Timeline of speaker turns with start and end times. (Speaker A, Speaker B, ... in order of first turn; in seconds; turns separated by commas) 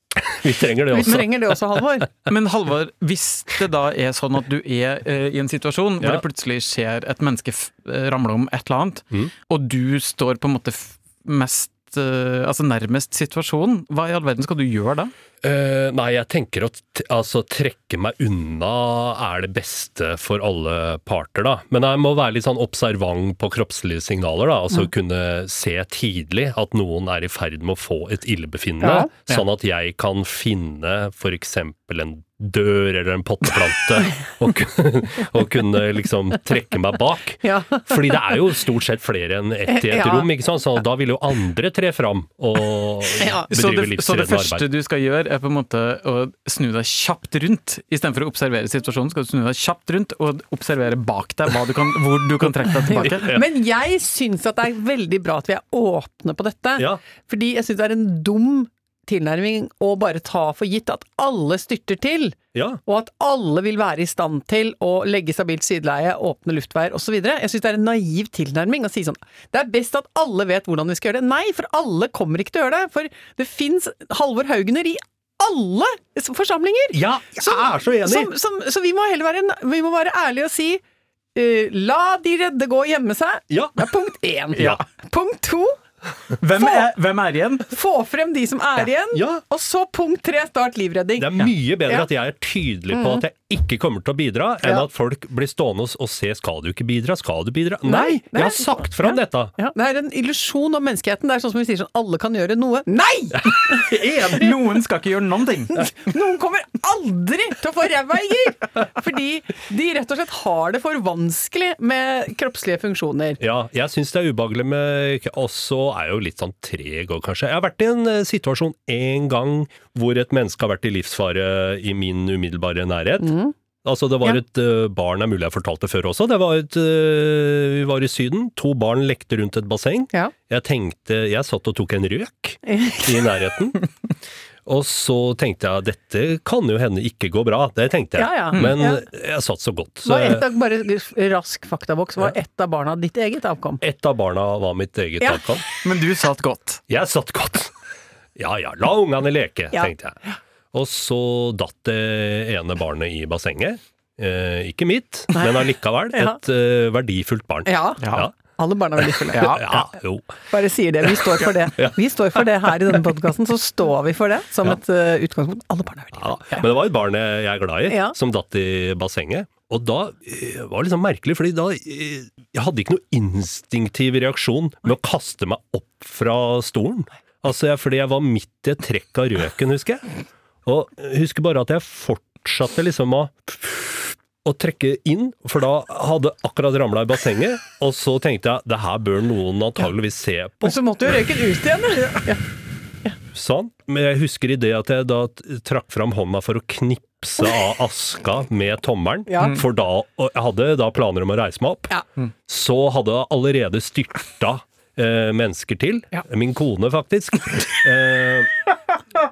Speaker A: 0.1-1.8, Speaker B: 0.9-2.1, Speaker C: 2.3-15.1, Speaker A: 15.4-44.6, Speaker B: 28.8-29.1, Speaker B: 37.4-38.4, Speaker B: 39.7-40.3, Speaker B: 43.2-43.5, Speaker C: 43.5-53.3, Speaker B: 52.9-80.8, Speaker A: 53.0-53.4, Speaker A: 62.5-62.8, Speaker A: 76.9-78.3, Speaker B: 81.3-85.8, Speaker A: 83.5-83.8, Speaker C: 84.5-84.8, Speaker A: 84.6-84.8, Speaker C: 86.4-87.7, Speaker B: 86.6-86.8, Speaker B: 87.7-91.3, Speaker A: 89.1-89.4, Speaker A: 91.2-99.5, Speaker B: 97.8-103.9, Speaker A: 103.7-104.5, Speaker C: 103.9-105.9, Speaker B: 105.8-113.4, Speaker A: 113.4-133.8, Speaker B: 123.2-123.5, Speaker B: 132.7-133.1, Speaker A: 134.7-140.4, Speaker B: 138.2-139.0, Speaker B: 140.0-143.8, Speaker A: 143.8-145.6, Speaker B: 145.2-145.6, Speaker C: 145.8-146.8, Speaker A: 146.9-147.7, Speaker A: 148.3-150.2, Speaker A: 150.7-158.3, Speaker B: 156.1-156.4, Speaker B: 157.6-159.8, Speaker C: 158.0-158.3, Speaker A: 159.2-160.3, Speaker C: 159.3-159.8, Speaker B: 160.5-166.7, Speaker A: 161.2-162.4, Speaker A: 166.1-180.1, Speaker B: 167.9-168.1, Speaker A: 180.6-190.8, Speaker B: 190.6-192.4, Speaker A: 193.3-201.9, Speaker B: 199.3-199.6, Speaker A: 202.5-208.5